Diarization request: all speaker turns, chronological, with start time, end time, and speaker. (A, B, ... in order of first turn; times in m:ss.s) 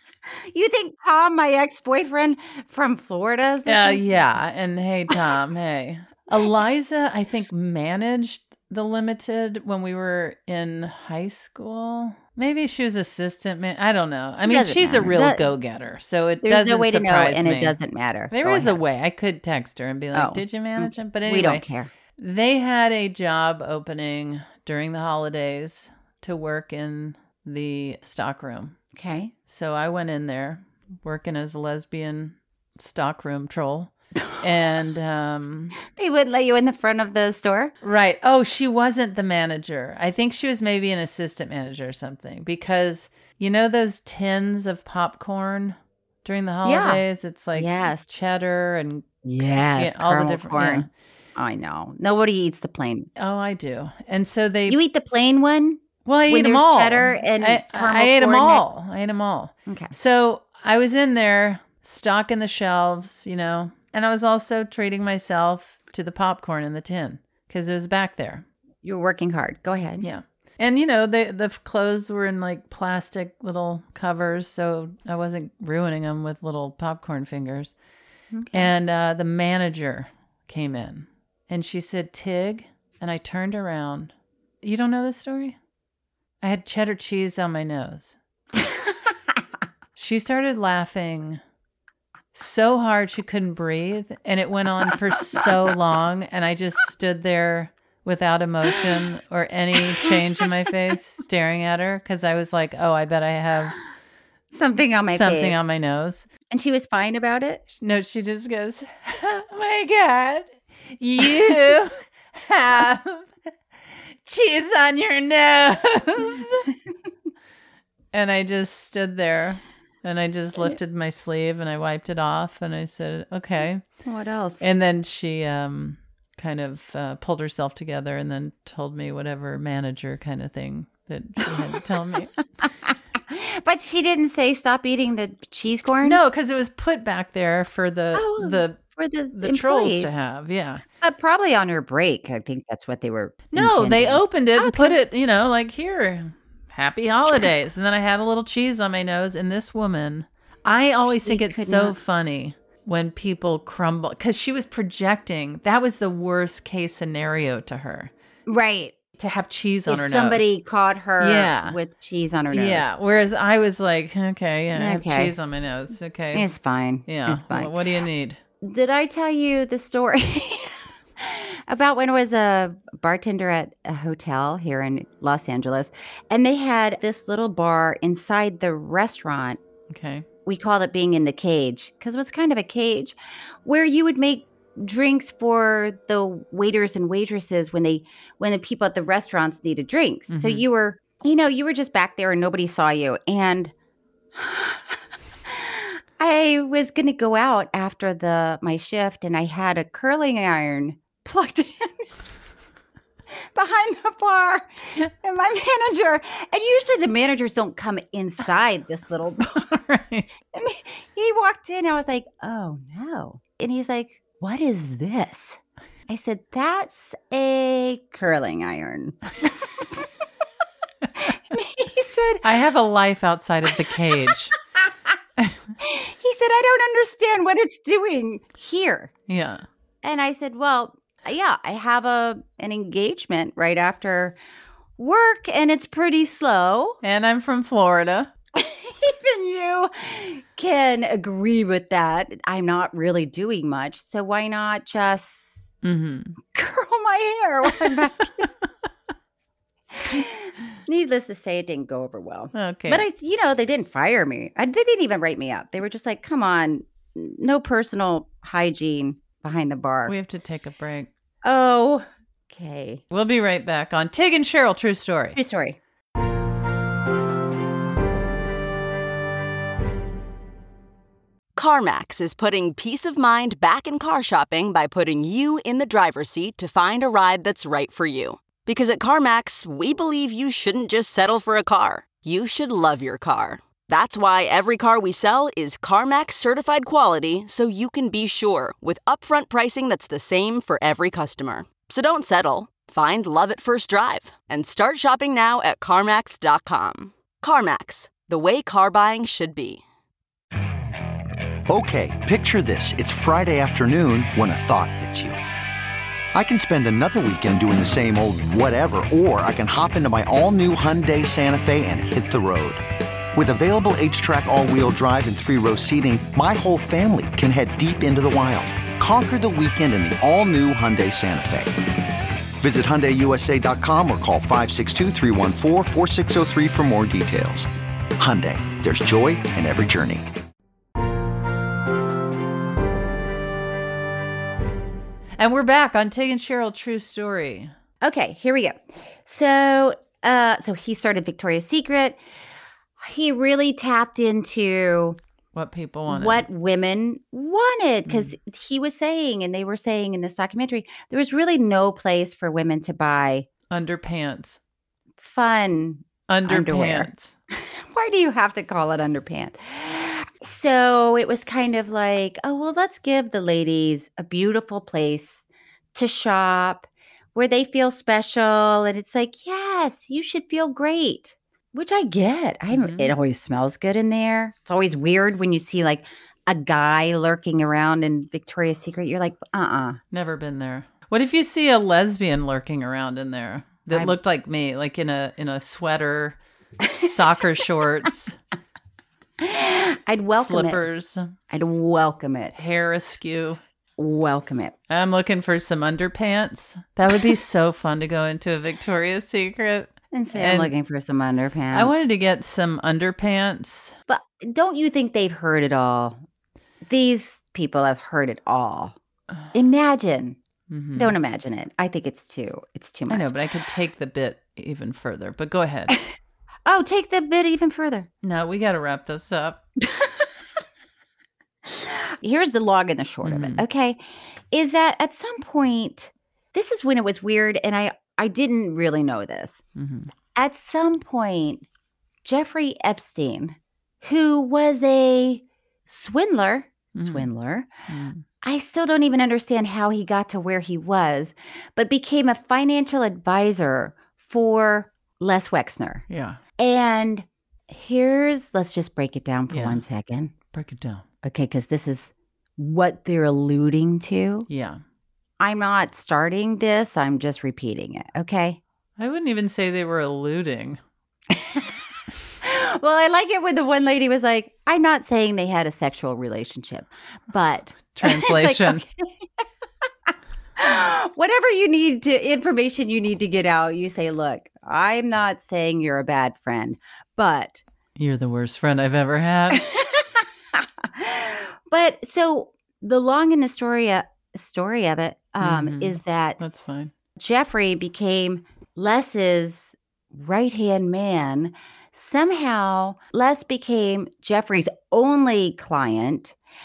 0:00.5-0:04.3 A
0:03.6-0:17.8 B
0:14.4-0:15.5 A
0:16.4-0:18.8 A
0:18.3-0:21.6 B
0:20.1-0:21.9 A
0:22.2-0:28.8 B
0:28.9-0:29.3 A
0:29.5-0:35.7 B
0:36.0-0:37.7 A
0:37.8-0:49.2 B
0:46.6-0:47.0 A
0:47.5-0:48.1 A
0:49.2-0:53.1 A
0:49.8-0:50.9 B
0:53.2-0:54.8 B
0:54.7-0:58.6 A
0:56.0-1:08.4 B
0:59.7-0:59.9 A
1:08.8-1:10.1 A
1:10.0-1:17.7 B
1:18.3-1:18.7 A
1:18.5-1:25.6 B
1:26.4-1:28.2 B
1:30.0-1:31.4 B
1:32.3-1:43.8 B
1:44.5-1:45.6 A
1:45.1-1:46.3 B
1:46.5-1:47.6 A
1:47.7-1:53.3 B
1:54.2-1:56.6 B
1:58.1-2:03.8 B
2:04.0-2:04.6 A
2:04.6-2:12.3 B
2:12.9-2:16.2 A
2:16.0-2:18.8 B
2:18.1-2:20.1 A
2:19.3-2:20.8 B
2:21.0-2:25.0 A
2:23.5-2:38.1 B
2:31.2-2:32.0 A
2:38.5-2:39.0 A
2:39.2-2:40.4 B
2:39.9-2:42.8 A
2:41.2-2:41.8 B
2:42.5-2:46.5 B
2:44.7-2:45.3 A
2:46.3-2:47.8 A
2:47.0-2:48.4 B
2:48.6-2:59.6 A
2:59.9-3:00.2 B
3:00.4-3:13.7 A
3:10.3-3:10.6 B
3:14.3-3:22.1 A
3:23.5-3:29.7 A
3:29.5-3:30.3 B
3:30.5-3:40.0 A
3:41.2-3:42.4 A
3:42.4-3:44.5 B
3:44.8-3:45.2 A
3:45.8-3:49.1 A
3:49.3-3:49.6 B
3:50.0-3:54.4 A
3:55.0-3:57.0 A
3:57.0-3:58.3 B
3:58.5-4:05.7 A
4:05.8-4:06.4 B
4:06.5-4:08.5 A
4:09.9-4:20.1 A
4:12.5-4:13.0 B
4:20.0-4:21.1 B
4:21.4-4:23.0 A
4:23.1-4:25.4 B
4:25.3-4:25.8 A
4:31.6-4:59.8 C
5:01.7-5:05.4 D
5:06.3-5:12.8 D
5:13.3-5:21.8 D
5:22.6-5:27.7 D
5:28.2-5:30.2 D
5:35.4-5:37.7 B
5:38.0-5:42.2 A
5:43.0-5:45.2 A
5:45.5-5:46.4 B
5:46.1-5:53.5 A
5:48.1-5:48.3 B
5:53.7-5:54.6 B
5:55.2-6:20.0 A
5:56.3-5:57.3 B
6:12.7-6:13.1 B
6:20.1-6:26.4 B
6:23.9-6:24.2 A
6:27.0-6:28.4 B
6:29.4-6:30.8 A
6:30.3-6:31.3 B
6:31.5-6:32.6 A
6:32.5-6:33.6 B
6:34.0-6:34.7 A
6:34.9-6:40.7 B
6:40.1-6:41.9 A
6:41.7-6:43.9 B
6:44.1-6:46.2 A
6:46.8-6:49.0 A
6:49.5-6:50.4 A
6:50.7-6:51.2 B
6:51.0-6:53.3 A
6:53.1-6:55.9 B
6:56.6-6:58.1 A
6:58.2-6:59.6 B
7:01.6-7:09.6 A
7:03.2-7:03.6 B
7:09.8-7:10.1 B
7:10.3-7:11.6 A
7:12.2-7:17.7 A
7:17.0-7:17.3 B
7:17.9-7:18.2 B
7:18.4-7:26.0 A
7:26.1-7:26.4 B
7:26.6-7:30.3 A
7:29.5-7:29.8 B
7:30.5-7:31.0 B
7:31.2-7:34.5 A
7:34.5-7:34.8 B
7:35.4-7:38.6 A
7:39.0-7:40.8 B
7:41.3-7:41.7 A
7:42.4-7:49.0 A
7:47.9-7:48.8 B
7:50.6-7:57.6 A
7:58.0-7:59.6 B
7:59.6-8:06.4 A
8:05.4-8:06.9 B
8:07.2-8:16.4 A